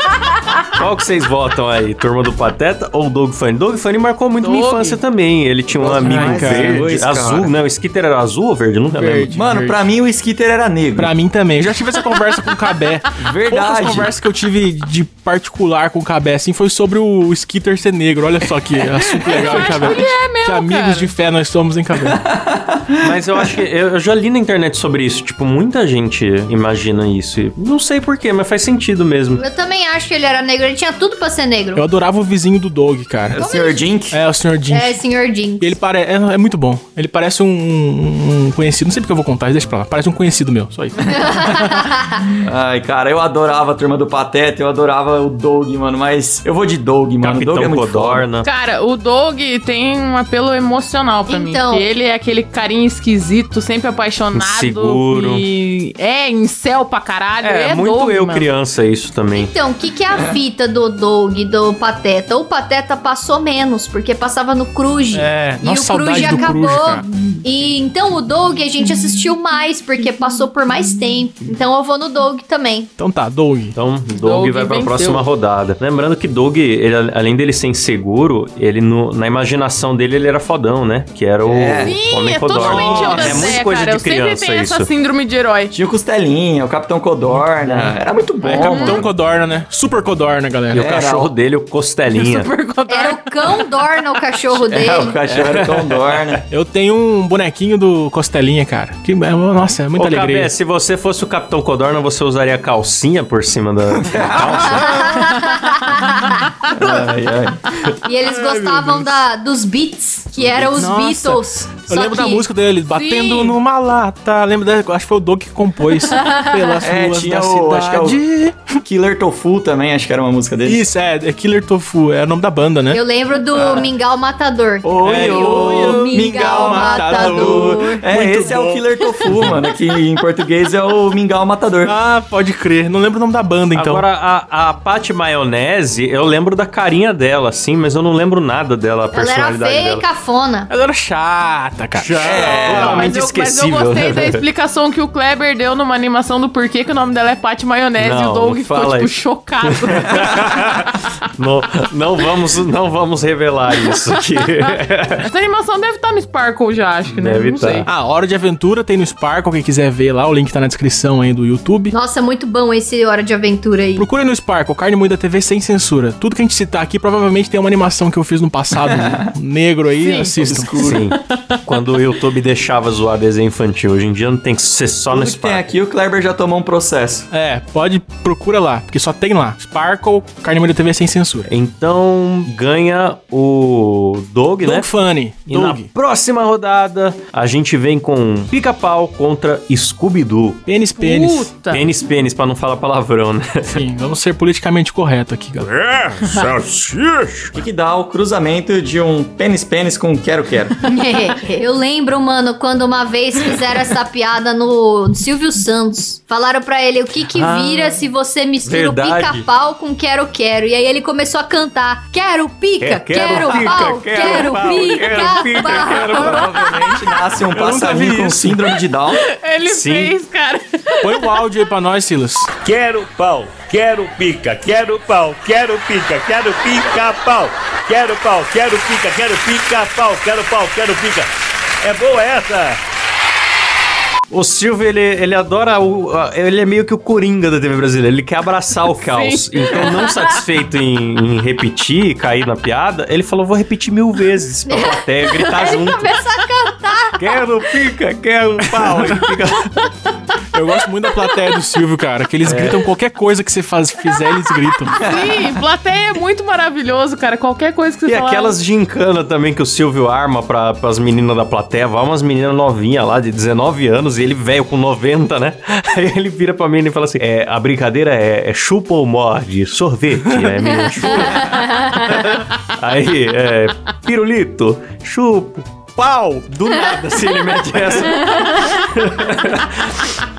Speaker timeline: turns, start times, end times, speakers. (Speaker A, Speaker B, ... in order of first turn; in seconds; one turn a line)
Speaker A: 0.8-9.3
Speaker B: 4.4-5.0
Speaker C: 5.7-7.5
Speaker D: 6.0-6.9
Speaker D: 8.9-9.8
Speaker C: 9.3-11.1
Speaker D: 11.0-22.2
Speaker C: 13.2-14.1
Speaker B: 19.3-21.1
Speaker C: 22.0-23.4
Speaker A: 23.0-29.4
Speaker E: 29.4-31.8
Speaker D: 31.8-33.4
Speaker C: 33.3-34.2
Speaker E: 33.4-33.9
Speaker D: 34.1-35.0
Speaker E: 34.7-35.8
Speaker D: 35.6-41.7
Speaker E: 41.1-42.2
Speaker C: 42.4-48.3
Speaker A: 47.2-48.5
Speaker B: 48.4-58.5
Speaker E: 51.3-51.9
Speaker A: 54.3-55.4
Speaker A: 57.4-59.5
Speaker E: 59.3-72.9
Speaker D: 65.1-67.0
Speaker D: 73.0-73.8
Speaker A: 73.8-84.9
Speaker B: 74.1-75.3
Speaker C: 81.4-82.0
Speaker B: 81.8-85.7
Speaker D: 82.6-83.5
Speaker C: 85.7-89.1
Speaker A: 87.3-87.9
Speaker D: 88.4-90.9
Speaker B: 88.5-89.0
Speaker C: 90.7-91.3
Speaker A: 90.7-92.5
Speaker B: 92.1-93.5
Speaker E: 92.9-95.2
Speaker C: 94.5-96.4
Speaker A: 95.4-96.4
Speaker D: 96.5-100.5
Speaker A: 100.0-105.3
Speaker C: 104.0-105.1
Speaker E: 104.7-106.4
Speaker C: 106.7-107.6
Speaker E: 108.0-112.5
Speaker D: 108.3-109.2
Speaker D: 110.8-118.6
Speaker B: 112.9-113.5
Speaker E: 116.1-116.8
Speaker C: 116.8-118.2
Speaker C: 118.8-120.8
Speaker D: 120.6-123.0
Speaker E: 122.9-128.1
Speaker C: 123.5-123.9
Speaker C: 124.8-131.9
Speaker D: 125.0-129.5
Speaker D: 131.8-134.0
Speaker A: 133.8-140.0
Speaker E: 139.1-140.7
Speaker D: 140.7-143.0
Speaker A: 142.0-144.4
Speaker C: 142.2-143.1
Speaker B: 142.4-150.6
Speaker A: 148.0-149.1
Speaker A: 149.6-155.3
Speaker B: 155.2-157.9
Speaker A: 157.1-157.9
Speaker D: 157.9-161.9
Speaker E: 161.9-164.1
Speaker D: 164.0-170.8
Speaker C: 168.9-169.2
Speaker B: 170.0-170.4
Speaker C: 170.4-171.1
Speaker A: 170.8-175.7
Speaker C: 175.1-177.3
Speaker D: 177.3-181.5
Speaker A: 181.5-184.9
Speaker D: 184.6-185.9
Speaker A: 185.5-190.6
Speaker D: 190.7-191.5
Speaker B: 190.9-191.9
Speaker A: 191.7-193.7
Speaker D: 193.7-195.7
Speaker F: 195.6-197.5
Speaker C: 197.5-200.7
Speaker E: 200.8-216.4
Speaker A: 207.3-208.0
Speaker A: 208.6-209.5
Speaker A: 212.8-216.5
Speaker C: 216.1-219.2
Speaker D: 217.5-218.6
Speaker B: 219.2-221.3
Speaker A: 219.6-220.1
Speaker D: 221.0-222.5
Speaker F: 222.6-231.3
Speaker F: 231.8-232.8
Speaker A: 234.3-246.1
Speaker B: 238.9-240.3
Speaker E: 244.7-247.2
Speaker A: 247.2-249.8
Speaker D: 250.5-254.9
Speaker B: 254.9-258.6
Speaker C: 254.9-255.3
Speaker A: 258.1-280.0
Speaker E: 270.6-272.1
Speaker E: 278.0-279.1